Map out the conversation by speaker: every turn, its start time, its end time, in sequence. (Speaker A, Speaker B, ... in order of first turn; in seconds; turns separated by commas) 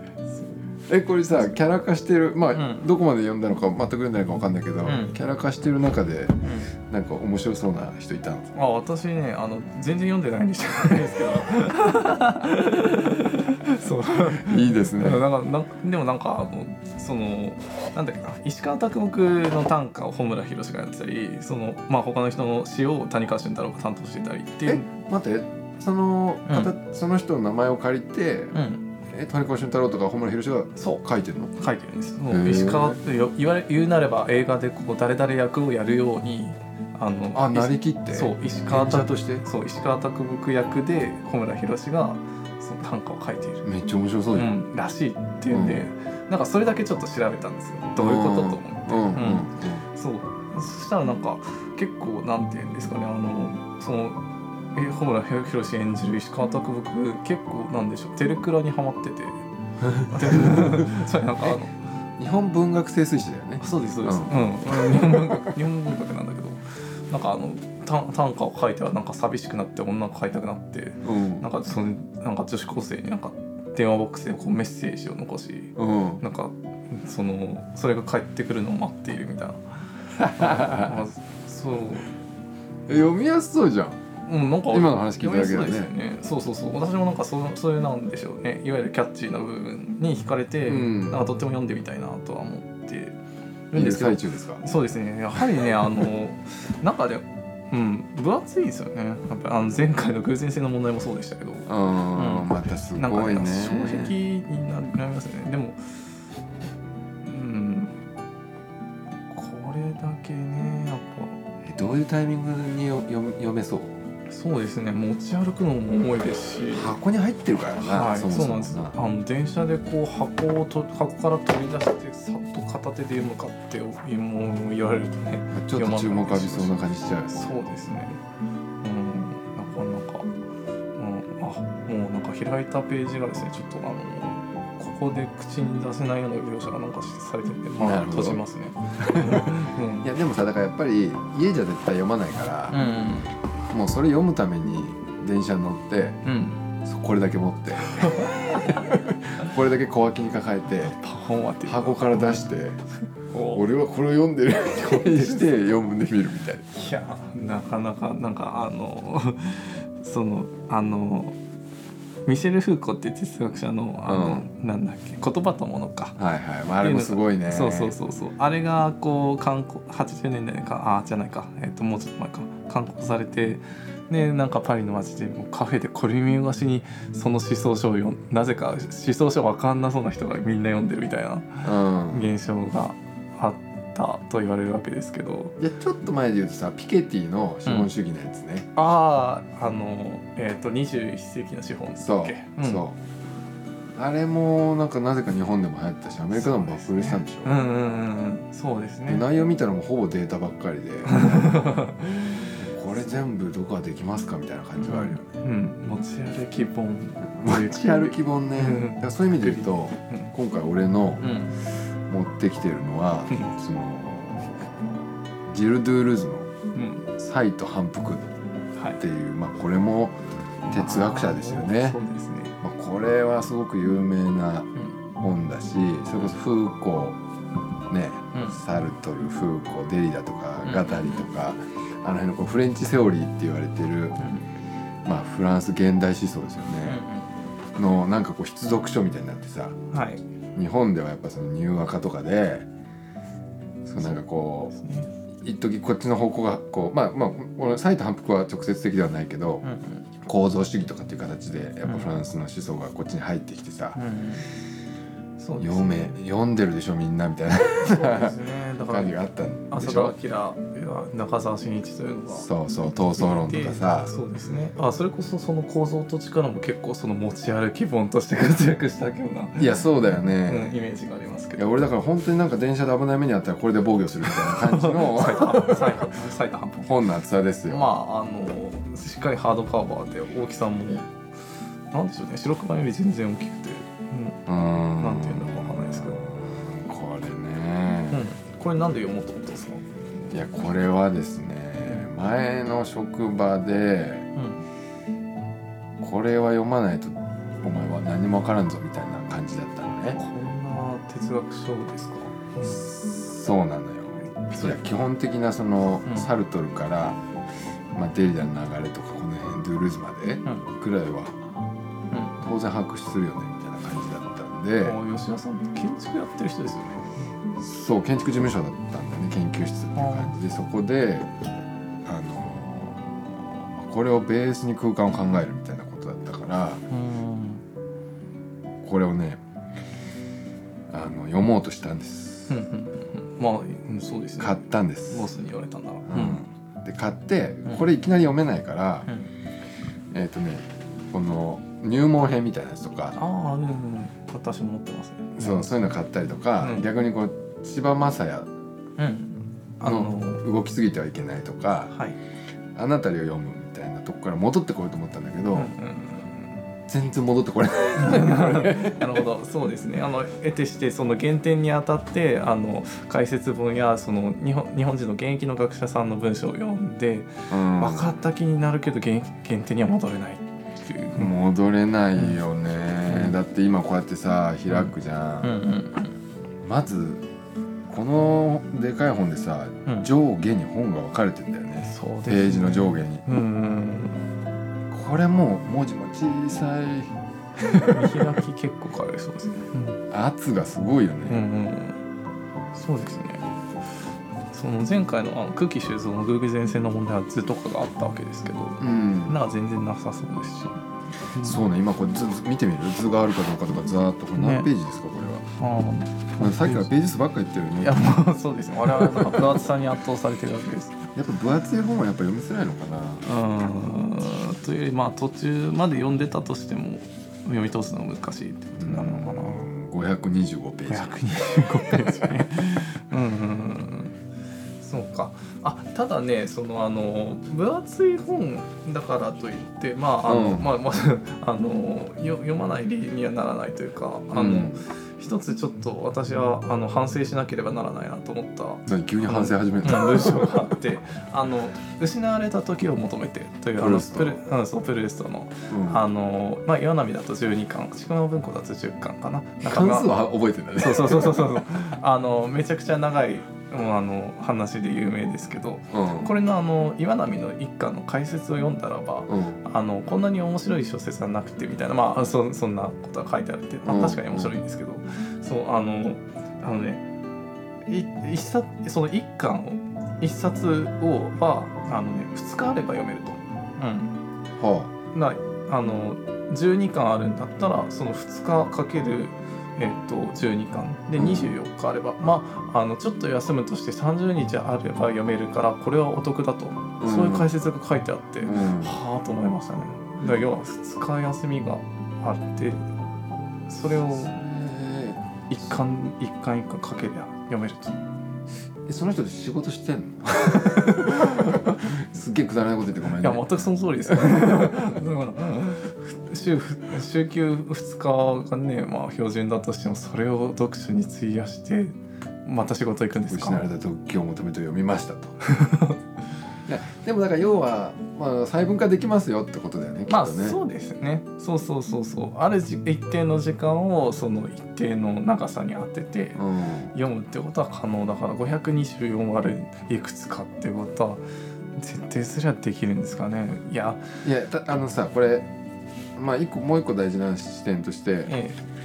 Speaker A: 0.9-6.4, Speaker B: 2.5-2.8, Speaker B: 4.8-5.1, Speaker B: 6.4-6.7, Speaker A: 6.9-8.5, Speaker B: 8.5-24.9, Speaker A: 14.2-15.3, Speaker A: 24.6-28.6, Speaker B: 26.4-26.7, Speaker B: 28.5-28.9, Speaker A: 29.1-31.5, Speaker B: 31.6-43.6, Speaker A: 32.3-33.0, Speaker A: 37.3-39.4, Speaker A: 43.6-44.5, Speaker B: 44.3-54.2, Speaker A: 45.5-45.9, Speaker A: 48.0-49.8, Speaker B: 54.7-59.4, Speaker A: 59.8-61.6, Speaker B: 60.1-61.8, Speaker A: 62.2-65.5, Speaker B: 63.6-82.1, Speaker A: 71.0-71.5, Speaker A: 75.8-76.2, Speaker A: 80.1-81.0, Speaker A: 82.9-84.0, Speaker B: 84.2-93.2, Speaker A: 84.7-85.9, Speaker A: 90.6-91.3, Speaker B: 93.7-105.8, Speaker A: 93.7-94.6, Speaker A: 101.7-104.2, Speaker B: 107.2-108.0, Speaker B: 109.3-111.4, Speaker A: 111.6-113.9, Speaker B: 114.3-117.0, Speaker A: 116.7-119.0, Speaker B: 117.8-128.2, Speaker A: 125.5-127.6, Speaker B: 128.8-130.3, Speaker B: 131.0-140.1, Speaker A: 137.8-138.4, Speaker A: 139.0-142.9, Speaker B: 142.7-143.3, Speaker A: 143.7-146.2, Speaker B: 146.2-146.7, Speaker A: 146.8-151.0, Speaker B: 147.9-148.9, Speaker B: 150.8-152.4, Speaker A: 151.6-152.8, Speaker B: 153.3-153.7, Speaker A: 153.5-156.7, Speaker B: 154.7-155.7, Speaker B: 156.7-161.3, Speaker B: 162.2-166.2, Speaker A: 164.0-164.5, Speaker A: 166.2-168.0, Speaker B: 166.8-185.6, Speaker A: 181.6-182.3, Speaker A: 185.6-188.7, Speaker B: 187.6-187.9, Speaker B: 188.7-192.8, Speaker A: 192.0-192.9, Speaker A: 193.9-197.6, Speaker B: 196.3-199.3, Speaker A: 199.1-201.9, Speaker B: 201.1-202.5, Speaker A: 202.5-205.4, Speaker B: 204.8-210.3, Speaker A: 207.3-211.4, Speaker B: 211.2-211.6, Speaker A: 212.1-216.5, Speaker B: 216.7-217.1, Speaker A: 217.1-218.3, Speaker A: 219.0-220.2, Speaker A: 220.7-222.0, Speaker B: 220.7-222.6, Speaker A: 222.6-227.2, Speaker A: 227.9-234.2, Speaker B: 228.3-228.6, Speaker B: 230.6-231.3, Speaker B: 234.2-234.4, Speaker A: 235.0-237.0, Speaker B: 236.8-237.3, Speaker A: 237.8-239.7, Speaker B: 239.9-240.2, Speaker A: 240.5-242.7, Speaker A: 243.8-244.8, Speaker B: 244.7-245.1, Speaker A: 245.4-249.7, Speaker B: 249.6-250.0, Speaker A: 250.2-254.0, Speaker B: 251.8-252.1, Speaker B: 253.9-254.5, Speaker B: 255.4-256.2, Speaker A: 255.6-260.1, Speaker B: 257.8-259.2, Speaker B: 259.7-262.5, Speaker A: 262.3-264.1, Speaker B: 263.1-271.9, Speaker A: 269.6-270.8, Speaker A: 271.6-276.1, Speaker B: 274.3-276.9, Speaker A: 276.8-277.9, Speaker B: 277.7-281.1, Speaker B: 281.9-284.4, Speaker A: 284.5-288.3, Speaker B: 284.9-286.2, Speaker B: 288.1-289.9, Speaker A: 290.3-294.3, Speaker B: 294.3-294.6, Speaker A: 296.0-300.2, Speaker B: 300.1-302.8, Speaker A: 302.6-307.2, Speaker B: 304.5-304.8, Speaker A: 307.9-311.4, Speaker B: 312.1-312.4, Speaker A: 312.4-315.0, Speaker B: 314.8-317.2, Speaker A: 317.6-321.3, Speaker B: 319.9-320.3, Speaker A: 322.1-326.8, Speaker B: 326.9-327.6, Speaker A: 328.8-329.4, Speaker A: 330.9-332.6, Speaker B: 332.5-336.5, Speaker A: 334.4-335.3, Speaker A: 336.1-339.1, Speaker A: 340.1-343.2, Speaker B: 343.1-345.7, Speaker A: 345.4-348.5, Speaker B: 346.6-346.9, Speaker B: 349.0-350.4, Speaker A: 349.8-351.9, Speaker B: 351.9-352.1, Speaker A: 352.7-355.7, Speaker B: 355.5-356.6, Speaker A: 356.9-359.3, Speaker B: 358.0-371.3, Speaker A: 367.5-368.1, Speaker A: 371.1-375.6, Speaker B: 372.1-372.4, Speaker B: 373.1-373.4, Speaker B: 374.7-376.2, Speaker A: 376.6-377.2, Speaker A: 377.9-383.2, Speaker B: 381.8-384.2, Speaker A: 384.9-388.3, Speaker B: 387.8-390.0, Speaker A: 390.1-391.4, Speaker B: 391.3-392.0, Speaker B: 392.7-393.4, Speaker B: 394.5-400.8, Speaker A: 398.8-399.4, Speaker B: 401.3-401.6, Speaker A: 401.4-405.4, Speaker B: 404.4-404.7, Speaker B: 405.6-406.9, Speaker A: 406.4-408.2, Speaker B: 407.8-411.0, Speaker A: 408.9-409.7, Speaker A: 411.1-413.2, Speaker B: 413.2-419.7, Speaker A: 418.7-421.2, Speaker B: 420.9-424.1, Speaker B: 424.8-450.1, Speaker A: 430.2-430.7, Speaker A: 434.3-434.8, Speaker A: 438.9-440.8, Speaker A: 443.8-444.4, Speaker A: 445.7-446.0, Speaker A: 449.6-451.6, Speaker B: 450.8-467.0, Speaker A: 455.9-456.3, Speaker A: 459.3-459.6, Speaker A: 463.8-464.6, Speaker B: 467.9-474.2, Speaker A: 474.6-474.9, Speaker B: 475.1-492.8, Speaker A: 481.1-481.6, Speaker A: 487.0-487.5, Speaker A: 488.4-489.0, Speaker B: 493.7-494.3, Speaker A: 493.9-495.4, Speaker B: 495.5-498.0, Speaker A: 498.9-505.0, Speaker B: 501.1-501.7, Speaker B: 503.2-513.7, Speaker A: 513.3-515.4, Speaker B: 515.4-516.0, Speaker A: 516.7-520.6, Speaker B: 520.1-526.4, Speaker A: 526.4-526.9, Speaker B: 526.9-531.2, Speaker B: 531.8-534.0, Speaker A: 534.2-535.5, Speaker A: 536.1-538.4, Speaker B: 538.2-538.6